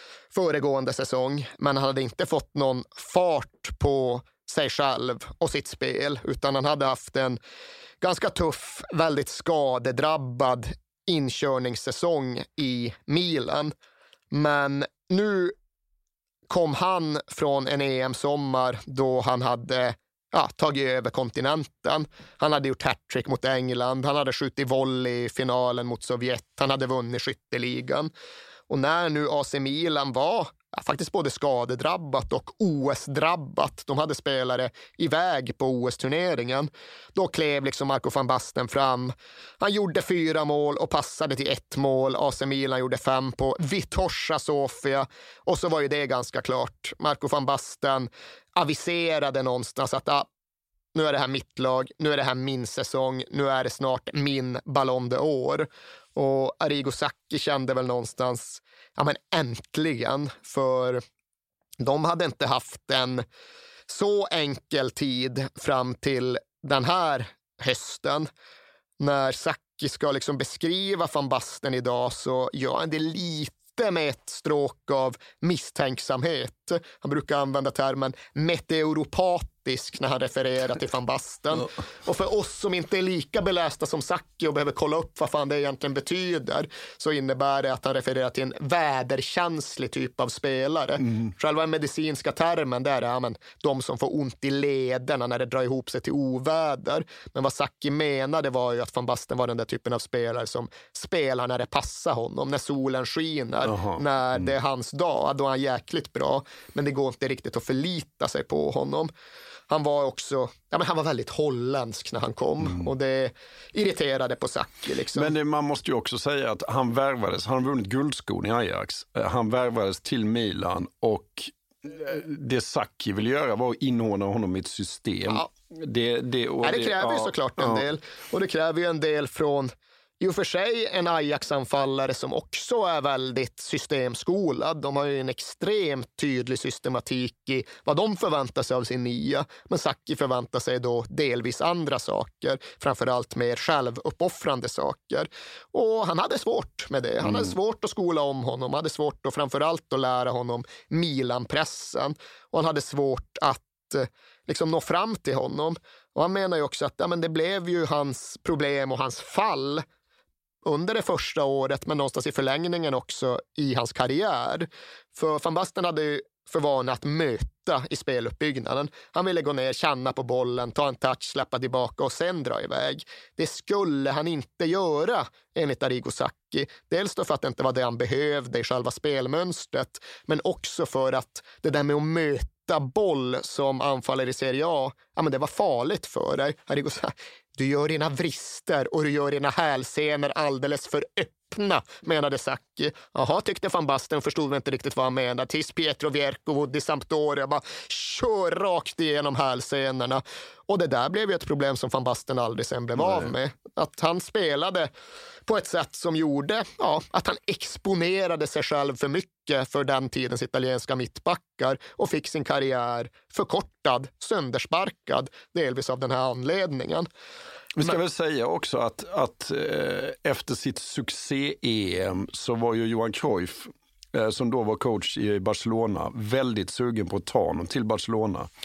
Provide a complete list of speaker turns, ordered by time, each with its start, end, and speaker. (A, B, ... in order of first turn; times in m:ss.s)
0:00.3-0:07.4 A
0:08.0-0:13.7 A
0:14.3-0:15.5 A
0:16.5-0:28.1 A
0:28.7-0:50.3 A
0:50.9-1:01.0 A
1:01.8-1:03.2 A
1:03.9-1:08.3 A
1:09.0-1:49.1 A
1:43.6-1:44.5 B
1:49.7-1:55.3 A
1:52.6-1:52.9 B
1:55.1-2:07.8 B
2:06.6-2:39.8 A
2:27.2-2:27.5 B
2:40.6-3:24.9 A
3:23.0-3:23.3 B
3:25.5-3:37.1 A
3:37.8-3:48.5 B